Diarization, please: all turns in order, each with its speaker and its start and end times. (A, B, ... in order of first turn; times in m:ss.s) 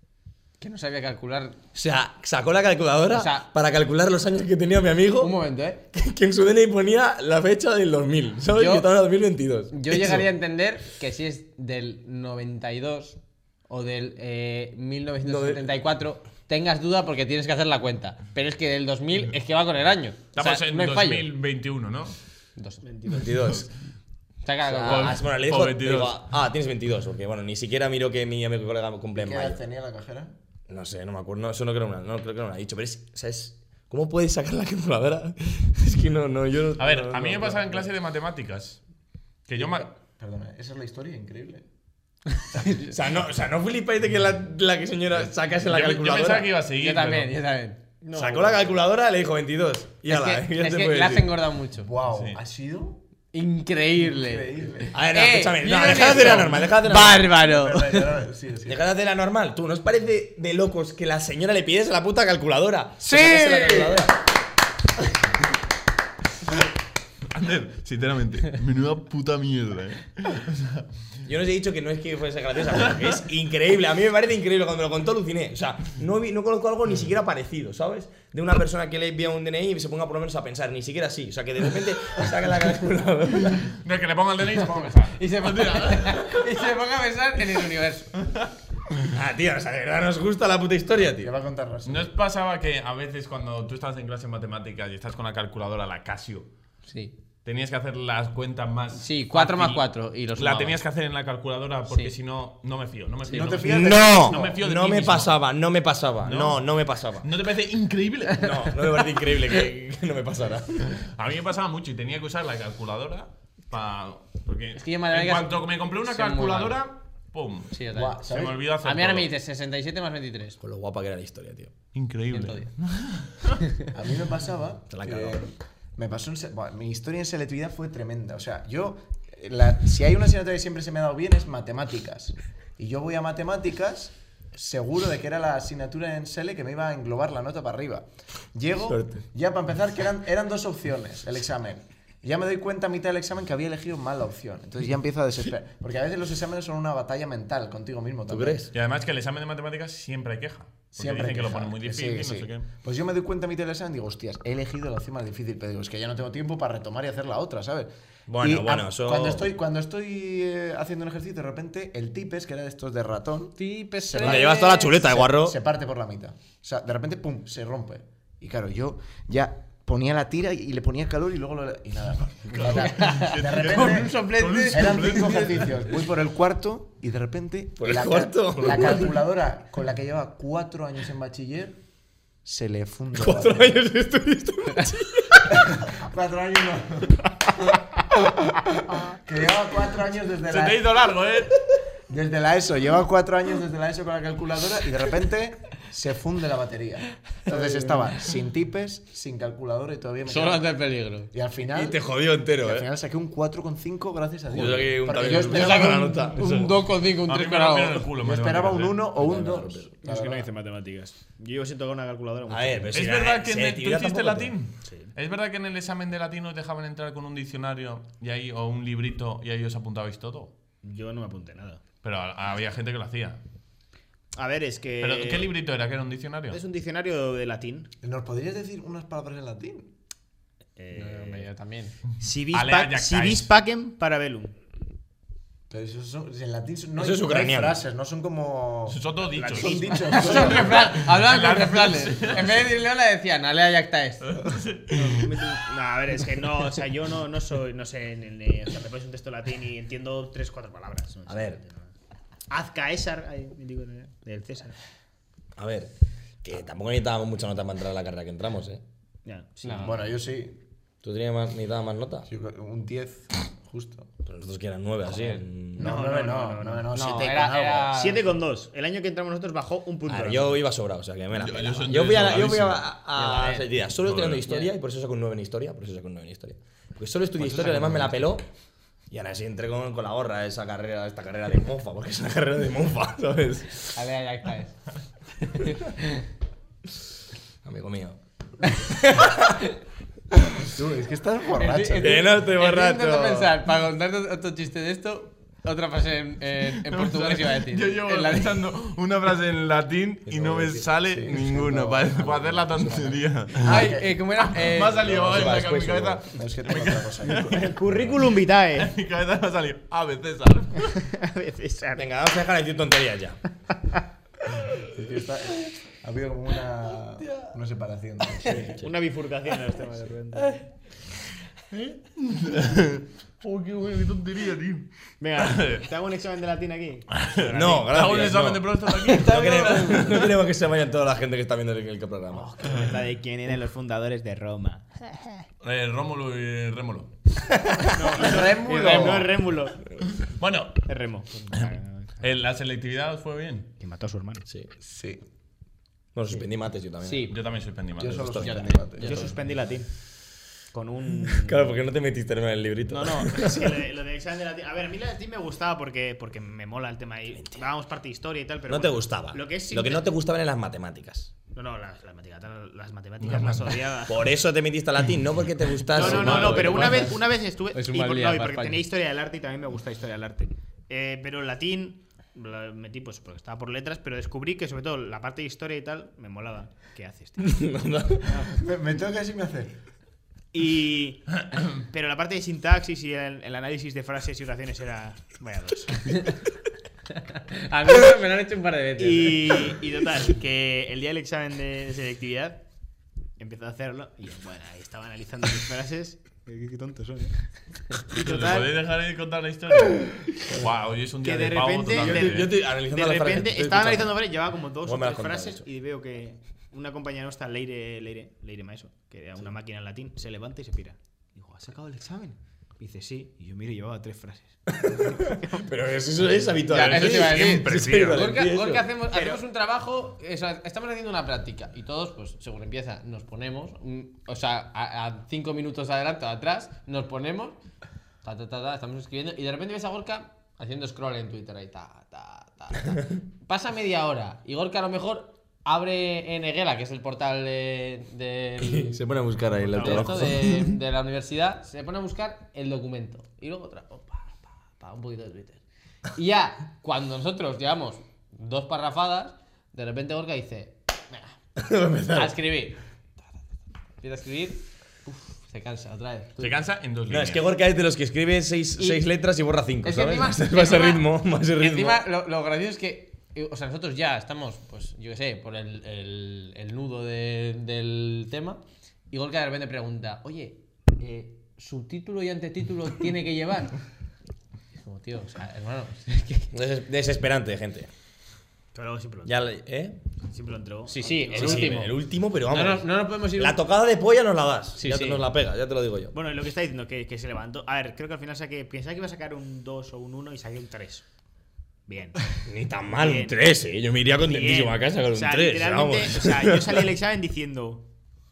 0:00.6-0:01.6 A
0:01.7-0:05.4 B
0:03.1-0:03.5 A
0:05.2-0:05.8 A
0:05.9-0:10.3 B
0:08.5-0:08.9 A
0:09.7-0:21.3 A
0:15.2-0:15.7 B
0:20.4-0:22.2 C
0:22.8-0:23.5 D
0:23.1-0:23.7 B
0:24.4-0:25.2 A
0:24.6-0:29.6 B
0:24.8-0:26.2 C
0:29.1-0:30.3 E
0:30.7-0:37.8 B
0:36.8-0:38.8 C
0:39.5-0:39.9 C
0:39.6-0:41.6 E
0:42.6-0:46.5 B
0:45.6-0:47.3 C
0:46.8-0:47.8 A
0:48.0-0:48.7 D
0:48.1-0:51.4 B
0:50.0-0:51.9 A
0:51.8-0:53.0 E
0:52.1-0:52.4 C
0:53.3-0:58.1 A
0:54.0-0:55.0 E
0:54.9-0:57.3 B
0:57.4-0:58.8 E
0:58.6-1:04.2 B
1:03.0-1:04.0 A
1:07.3-1:10.8 C
1:11.2-1:23.7 B
1:12.8-1:13.1 C
1:23.6-1:26.2 C
1:24.7-1:28.1 A
1:29.0-1:31.3 B
1:31.1-1:32.1 E
1:31.8-1:36.5 C
1:36.9-1:37.1 A
1:37.4-1:45.4 C
1:38.9-1:40.8 A
1:41.9-1:42.1 A
1:43.3-1:44.6 E
1:43.3-1:47.3 B
1:46.2-1:46.7 C
1:47.2-1:48.6 C
1:48.3-1:51.0 B
1:51.1-1:59.3 C
1:54.8-1:56.8 A
1:57.7-1:58.2 A
1:57.9-1:58.6 E
1:58.8-2:00.6 A
2:00.6-2:01.7 B
2:01.9-2:03.6 C
2:02.3-2:02.7 A
2:03.9-2:28.7 E
2:04.9-2:05.4 B
2:18.9-2:19.2 B
2:28.3-2:28.7 B
2:28.7-2:32.7 C
2:30.9-3:01.8 E
2:38.3-2:39.5 B
2:43.6-2:45.0 A
2:44.2-2:45.6 B
2:52.4-2:55.7 C
2:52.7-2:55.6 A
2:57.8-2:59.1 B
3:02.4-3:03.8 E
3:03.2-3:05.8 B
3:05.5-3:07.3 E
3:09.2-3:10.9 E
3:10.5-3:11.6 C
3:12.1-3:20.7 E
3:20.2-3:21.3 A
3:21.3-3:22.0 E
3:21.7-3:22.9 B
3:22.6-3:26.2 E
3:24.5-3:26.8 B
3:25.3-3:28.1 A
3:27.3-3:29.0 C
3:28.2-3:30.5 E
3:29.2-3:29.8 B
3:30.0-3:33.0 D
3:32.5-3:34.5 B
3:32.9-3:40.5 C
3:34.8-3:35.1 D
3:40.8-3:41.8 D
3:42.0-3:43.4 C
3:44.3-3:45.5 D
3:45.0-3:46.6 C
3:46.5-3:47.9 D
3:48.0-3:49.9 E
3:50.8-3:51.5 D
3:50.9-3:52.0 A
3:52.2-3:54.6 D
3:52.5-3:53.5 C
3:55.7-4:00.9 E
3:57.0-3:57.8 B
3:58.9-4:02.7 C
3:59.3-4:00.5 D
4:00.1-4:04.3 A
4:04.3-4:05.1 C
4:04.9-4:11.9 D
4:11.3-4:11.6 B
4:12.5-4:14.8 D
4:15.6-4:15.9 B
4:16.4-4:18.8 B
4:19.2-4:20.1 D
4:19.6-4:20.0 A
4:19.8-4:20.6 E
4:21.0-4:22.3 B
4:22.2-4:24.1 E
4:24.2-4:25.9 B
4:25.0-4:25.4 A
4:25.8-4:27.9 E
4:25.8-4:26.9 D
4:26.9-4:28.4 A
4:27.8-4:30.6 D
4:30.1-4:38.4 B
4:31.3-4:32.8 C
4:33.1-4:33.7 A
4:34.0-4:34.4 C
4:37.5-4:38.0 A
4:39.1-4:43.9 B
4:43.9-4:44.8 A
4:45.4-4:46.2 A
4:47.6-4:49.6 B
4:50.5-4:52.3 E
4:51.6-4:58.6 A
4:52.0-4:53.5 B
4:56.8-5:03.8 C
5:00.3-5:04.2 E
5:01.7-5:02.1 B
5:03.6-5:05.2 A
5:04.5-5:07.5 C
5:05.0-5:05.6 E
5:05.1-5:06.3 B
5:06.3-5:08.0 E
5:07.4-5:08.9 D
5:08.8-5:11.0 C
5:11.0-5:12.0 D
5:12.0-5:13.4 B
5:14.7-5:18.8 E
5:18.6-5:20.7 D
5:21.7-5:25.8 C
5:25.2-5:28.4 D
5:27.1-5:30.3 C
5:27.5-5:32.9 B
5:29.4-5:30.2 A
5:32.4-5:35.4 D
5:35.6-5:37.1 C
5:37.9-5:39.8 D
5:38.1-5:39.3 E
5:40.2-5:40.8 C
5:40.8-5:42.1 D
5:41.5-5:43.7 C
5:43.8-5:44.4 D
5:44.5-5:44.7 B
5:44.8-5:45.2 E
5:46.1-5:47.3 B
5:47.0-5:47.4 A
5:47.3-5:48.6 C
5:48.0-5:49.4 E
5:48.4-5:49.4 A
5:49.0-5:49.9 D
5:50.7-5:51.8 D
5:51.2-5:53.8 B
5:52.9-6:00.0 D
5:58.7-6:01.3 B
6:01.5-6:04.3 D
6:03.2-6:03.7 C
6:04.1-6:07.2 B
6:05.9-6:17.4 D
6:06.3-6:07.1 A
6:07.7-6:08.8 A
6:17.4-6:18.3 B
6:18.2-6:18.5 D
6:18.5-6:19.7 E
6:20.5-6:26.0 D
6:27.2-6:29.7 A
6:29.0-6:32.6 D
6:33.4-6:38.7 D
6:38.1-6:42.5 C
6:41.2-6:55.7 D
6:41.9-6:44.3 B
6:44.8-6:45.6 B
6:54.7-6:58.8 B
6:56.7-7:07.6 A
6:56.7-6:58.2 C
6:59.0-6:59.4 D
7:08.2-7:18.9 A
7:18.6-7:20.8 B
7:19.6-7:20.3 D
7:19.7-7:25.6 A
7:26.1-7:31.3 A
7:31.6-7:32.4 B
7:32.1-7:32.8 A
7:34.0-7:36.6 A
7:36.4-7:37.5 C
7:37.1-7:42.0 B
7:38.8-7:39.0 A
7:39.8-7:48.6 A
7:49.1-7:53.8 A
7:54.7-7:56.5 A
7:56.5-7:57.9 B
7:58.7-7:59.4 D
7:59.2-8:00.0 B
8:00.3-8:01.8 D
8:00.8-8:02.0 A
8:01.3-8:06.1 B
8:02.5-8:03.6 A
8:04.8-8:05.3 A
8:06.1-8:11.0 D
8:11.9-8:12.2 D
8:12.4-8:16.9 B
8:13.0-8:13.3 D
8:14.2-8:17.8 D